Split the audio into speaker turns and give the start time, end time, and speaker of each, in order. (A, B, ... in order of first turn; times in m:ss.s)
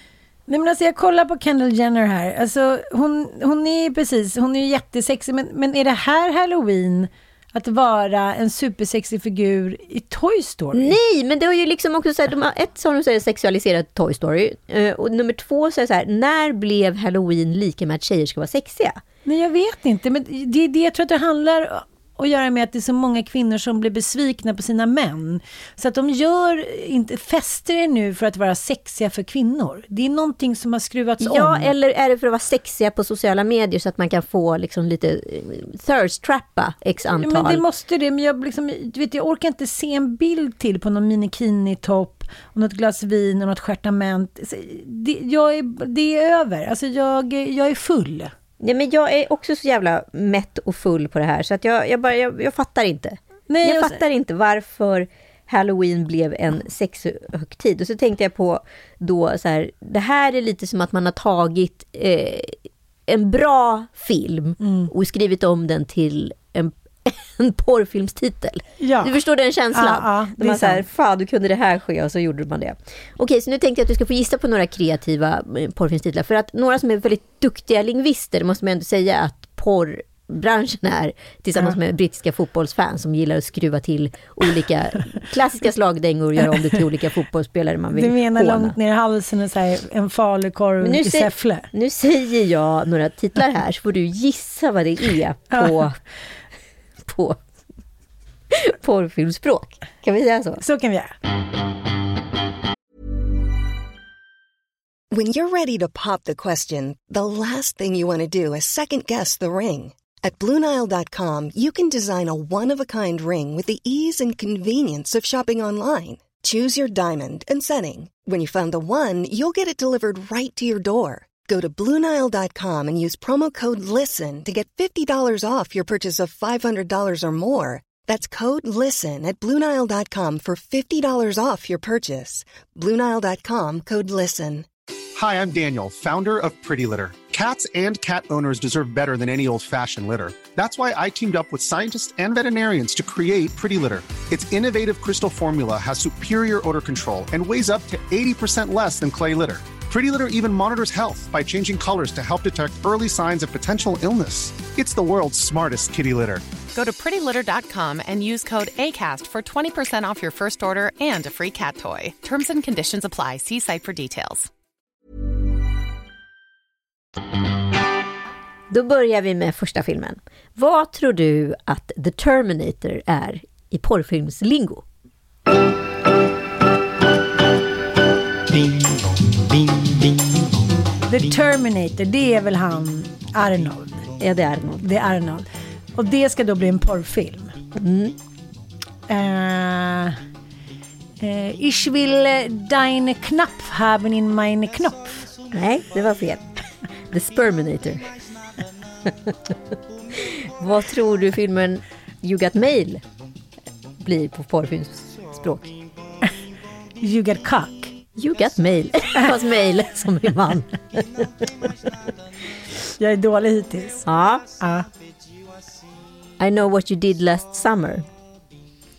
0:00.5-0:11.0 A
0:10.7-0:19.0 B
0:19.2-0:31.7 A
0:31.2-0:37.6 B
0:37.2-0:48.3 A
0:48.6-1:28.8 B
0:53.5-0:54.0 A
1:04.6-1:04.9 A
1:08.8-1:09.2 A
1:09.7-1:10.8 A
1:27.9-1:31.7 A
1:30.8-1:36.0 B
1:35.5-1:35.8 A
1:37.0-1:37.4 B
1:38.5-1:40.6 B
1:40.6-1:41.1 A
1:45.1-2:14.7 C
2:15.2-2:36.5 D
2:36.7-2:44.5 E
2:48.7-2:54.8 B
3:01.1-3:04.1 A
3:04.2-3:04.8 B
3:04.8-3:07.6 A
3:07.8-3:08.2 B
3:09.1-3:10.2 A
3:11.2-3:15.3 A
3:15.5-3:16.6 B
3:17.1-3:18.1 B
3:19.0-3:19.6 B
3:20.1-3:23.0 B
3:24.0-3:25.8 B
3:27.0-3:27.9 A
3:28.2-3:31.7 B
3:33.0-3:34.0 A
3:34.0-3:34.5 B
3:34.6-3:34.9 A
3:36.4-3:38.1 B